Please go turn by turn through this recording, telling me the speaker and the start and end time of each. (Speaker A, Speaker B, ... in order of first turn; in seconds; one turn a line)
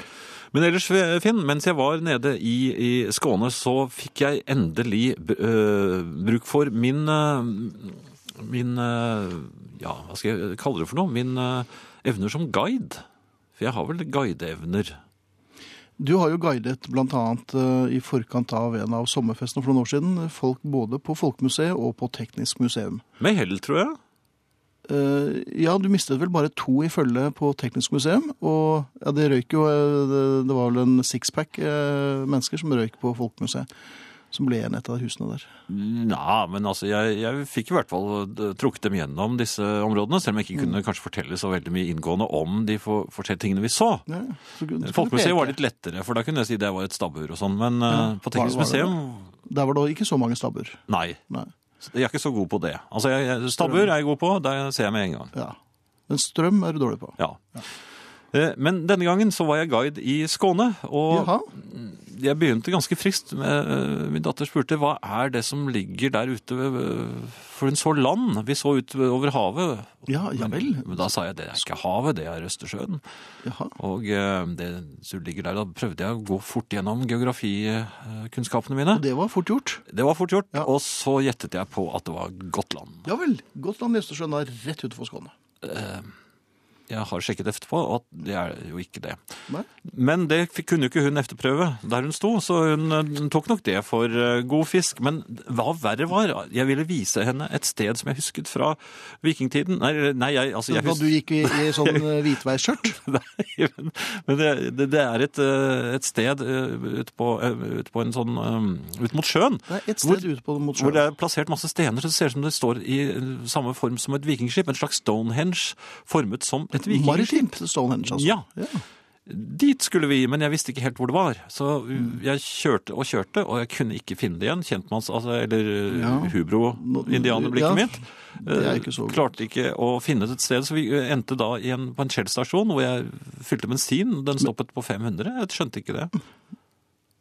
Speaker A: 0.5-13.0
Speaker A: 13.6-15.0
Speaker B: 16.0-23.0
Speaker A: 23.2-24.0
Speaker B: 24.9-33.7
Speaker B: 34.3-35.5
Speaker A: 35.7-44.1
Speaker B: 44.1-45.6
Speaker A: 44.8-49.3
Speaker B: 47.9-51.5
Speaker A: 50.9-51.2
Speaker A: 51.8-55.3
Speaker B: 53.6-53.9
Speaker B: 56.1-57.6
Speaker A: 57.2-57.7
Speaker A: 58.3-73.0
Speaker B: 61.1-61.5
Speaker B: 70.1-71.1
Speaker B: 73.4-73.8
Speaker A: 73.8-79.0
Speaker B: 78.9-79.8
Speaker A: 79.9-83.1
Speaker B: 83.0-85.3
Speaker A: 85.6-86.1
Speaker A: 86.9-89.2
Speaker A: 89.8-102.3
Speaker B: 100.7-103.0
Speaker A: 102.8-118.5
Speaker B: 109.7-111.0
Speaker B: 116.7-118.8
Speaker A: 119.3-136.1
Speaker B: 125.9-129.3